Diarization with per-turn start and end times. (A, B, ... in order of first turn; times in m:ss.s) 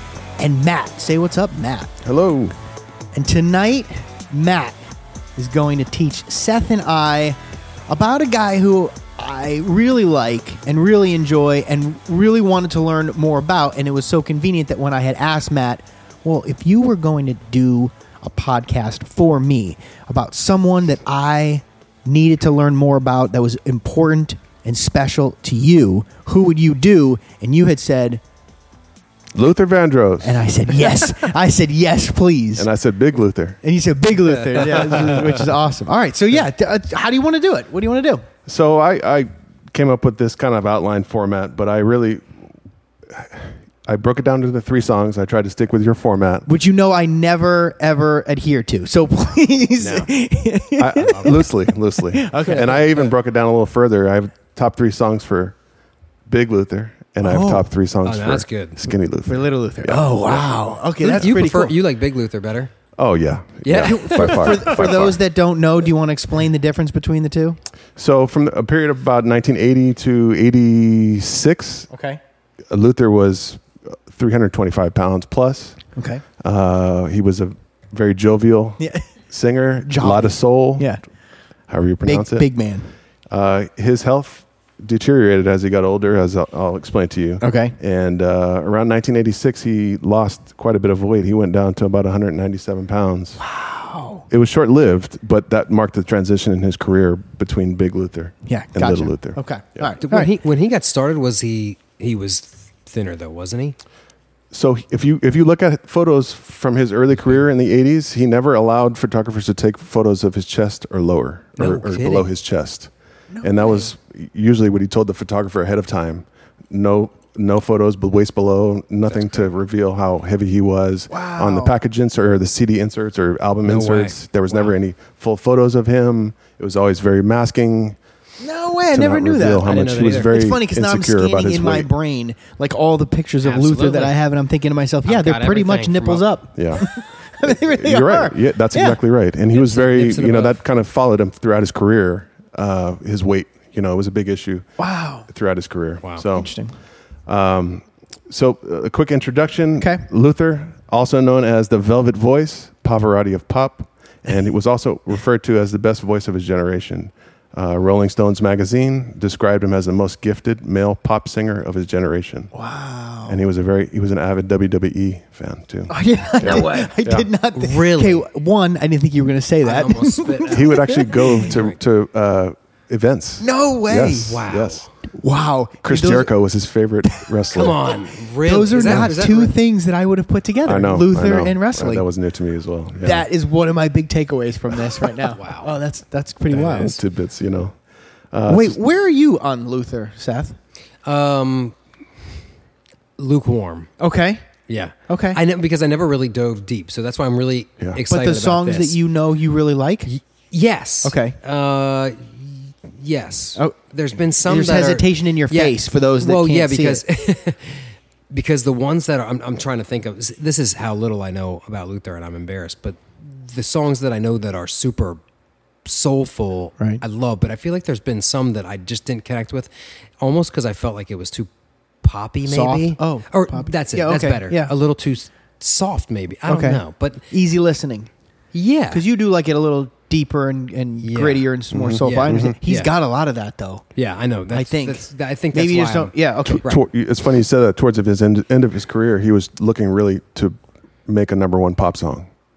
0:00.4-0:02.0 A
0:02.0-0:02.5 B
0:03.1-0:04.8 A
0:05.4-0:28.2 A
0:29.3-0:30.5 B
0:30.2-0:32.7 A
0:32.6-0:33.6 B
0:33.6-0:38.2 A
0:34.6-0:35.2 C
0:38.4-0:42.3 B
0:43.1-0:46.5 B
0:46.4-0:52.8 A
0:49.8-0:50.1 C
0:50.8-0:55.5 B
0:51.1-0:51.4 C
0:52.5-0:52.9 C
0:56.3-1:00.0 B
0:57.2-0:57.7 A
0:58.0-0:58.8 C
0:59.2-1:01.7 A
1:01.0-1:02.7 C
1:03.0-1:05.2 B
1:03.6-1:04.8 C
1:03.8-1:07.6 A
1:08.0-1:11.9 B
1:11.9-1:12.2 A
1:12.7-1:15.8 B
1:15.9-1:16.2 A
1:16.4-1:20.9 B
1:18.8-1:19.1 A
1:19.8-1:21.0 A
1:21.7-1:22.5 B
1:22.0-1:22.9 A
1:23.3-1:33.4 B
1:27.4-1:27.8 A
1:33.4-1:34.2 A
1:34.3-1:39.9 B
1:38.5-1:40.3 A
1:40.0-1:43.8 C
1:44.5-1:52.9 B
1:51.6-1:52.3 C
1:53.3-1:53.9 A
1:53.4-2:08.0 B
1:59.1-1:59.5 C
2:01.1-2:01.8 A
2:03.6-2:04.7 C
2:08.4-2:19.0 A
2:08.9-2:11.9 B
2:09.5-2:10.3 C
2:13.4-2:14.2 C
2:15.0-2:16.2 C
2:16.6-2:16.9 B
2:17.4-2:24.7 B
2:19.5-2:20.6 C
2:24.8-2:25.3 A
2:25.3-2:26.5 B
2:26.3-2:26.7 A
2:27.3-2:42.5 B
2:29.8-2:30.0 A
2:42.5-2:43.4 A
2:43.3-2:47.3 B
2:45.9-2:51.5 A
2:46.4-2:46.9 C
2:47.5-2:48.2 C
2:49.6-2:51.8 C
2:50.5-2:54.9 B
2:53.4-2:54.4 A
2:54.2-2:54.9 C
2:55.1-2:56.3 A
2:55.8-2:57.8 B
2:57.5-2:59.5 C
2:58.4-3:02.1 A
2:58.8-2:59.1 B
3:00.6-3:03.2 B
3:03.0-3:07.0 A
3:05.3-3:05.7 C
3:06.5-3:07.0 C
3:06.7-3:07.8 B
3:08.3-3:08.8 B
3:08.4-3:10.6 A
3:11.0-3:11.7 C
3:13.2-3:13.9 C
3:14.0-3:14.4 A
3:14.7-3:19.0 C
3:15.1-3:15.4 A
3:18.1-3:20.1 A
3:20.0-3:35.2 C
3:21.0-3:21.4 A
3:24.4-3:27.0 A
3:35.8-3:41.5 C
3:42.0-3:47.2 C
3:42.5-3:44.7 A
3:46.5-3:48.1 A
3:48.5-3:49.0 C
3:48.9-3:53.8 A
3:51.0-3:52.9 C
3:51.7-3:52.6 B
3:54.0-3:56.8 C
3:54.5-3:56.6 A
3:56.4-4:02.3 B